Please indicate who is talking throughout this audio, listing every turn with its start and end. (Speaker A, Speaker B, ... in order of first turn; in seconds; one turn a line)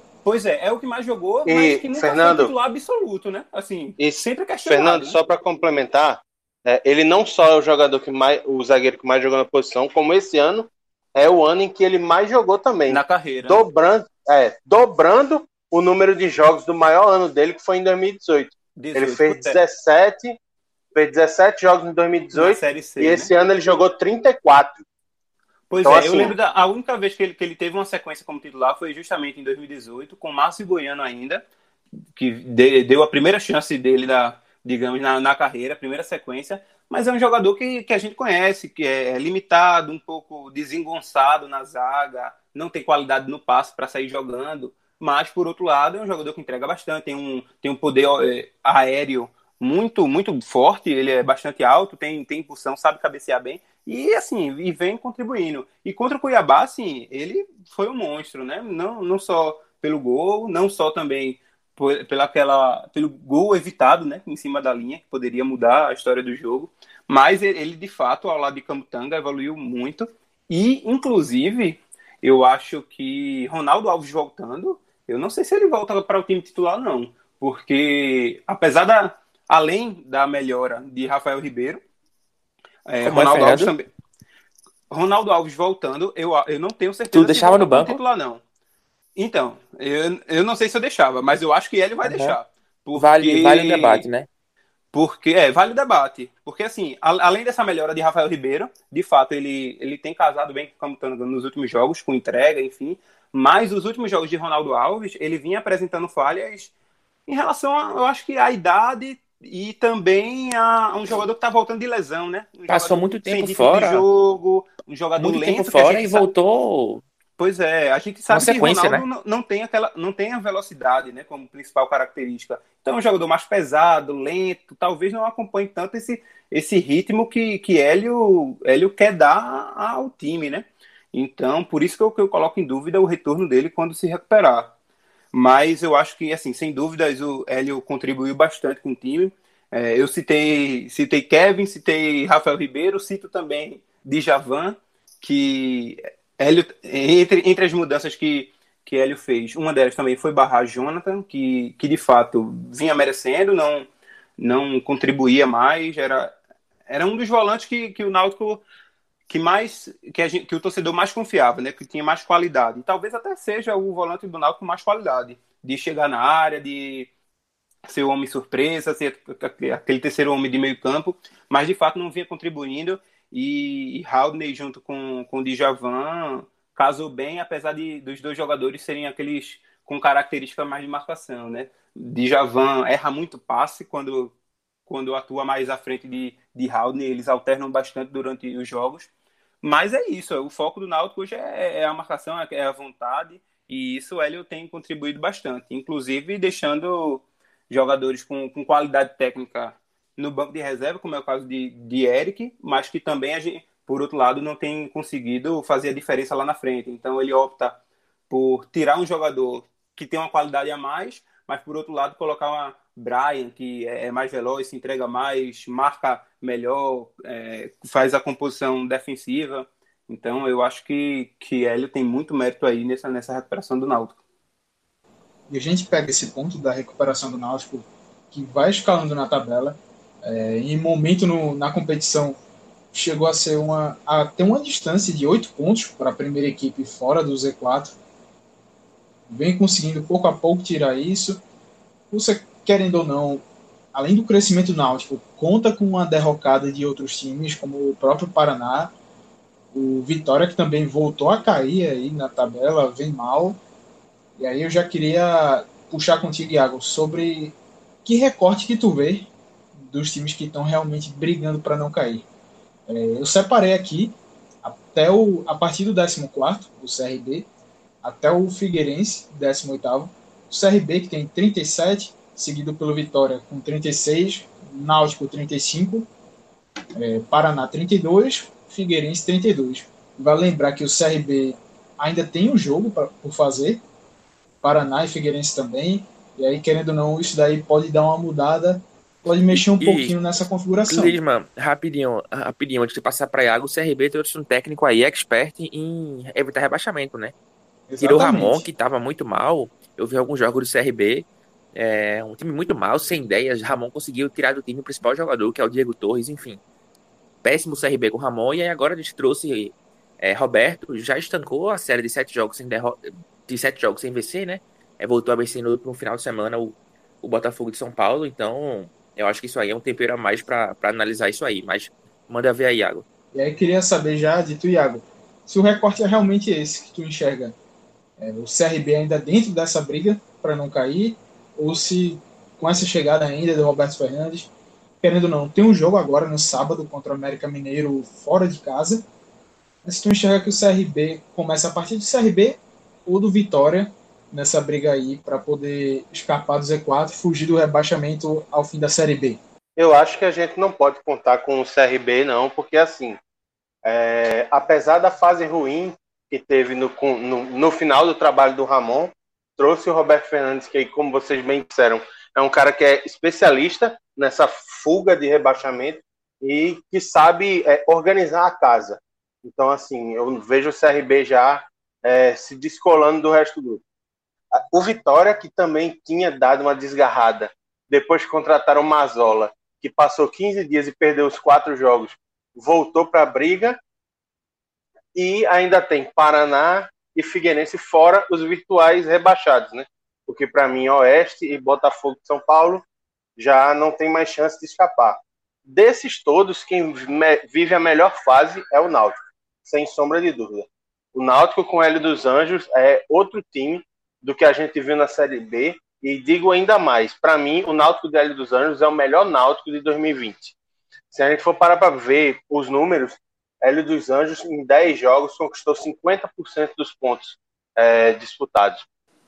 Speaker A: 0.2-5.2
Speaker B: 1.5-2.5
Speaker B: 4.0-20.3
Speaker A: 12.9-13.6
Speaker A: 18.8-19.6
Speaker B: 20.9-24.8
Speaker A: 22.3-23.3
Speaker A: 25.7-31.4
Speaker B: 25.8-26.3
Speaker A: 32.1-81.8
Speaker A: 82.9-83.9
Speaker C: 83.0-83.7
Speaker A: 84.9-88.4
Speaker C: 87.1-88.0
Speaker A: 89.2-94.0
Speaker C: 92.0-92.4
Speaker C: 93.0-94.3
Speaker A: 94.9-106.7
Speaker A: 107.3-116.2
Speaker C: 112.7-114.0
Speaker C: 115.2-117.0
Speaker A: 117.4-134.7
Speaker C: 118.3-119.0
Speaker A: 135.3-156.3
Speaker A: 156.9-158.6
Speaker A: 159.3-167.1
Speaker A: 167.9-184.3
Speaker A: 184.9-189.1
Speaker A: 189.6-207.8
Speaker A: 208.3-224.2
Speaker D: 225.5-232.4
Speaker D: 232.9-237.9
Speaker D: 239.3-241.4
Speaker D: 242.1-248.9
Speaker D: 249.7-253.6
Speaker D: 254.4-259.3
Speaker D: 259.8-262.2
Speaker D: 262.9-267.5
Speaker D: 268.0-276.1
Speaker D: 277.0-283.8
Speaker D: 284.6-291.2
Speaker C: 289.5-290.1
Speaker C: 290.9-297.3
Speaker D: 297.9-298.7
Speaker C: 298.0-306.6
Speaker C: 307.4-323.0
Speaker D: 323.3-327.6
Speaker D: 328.2-334.5
Speaker D: 335.0-339.0
Speaker D: 339.8-349.4
Speaker B: 349.8-353.2
Speaker B: 353.8-373.8
Speaker B: 374.6-383.8
Speaker B: 385.1-392.8
Speaker B: 393.4-410.5
Speaker B: 411.1-418.8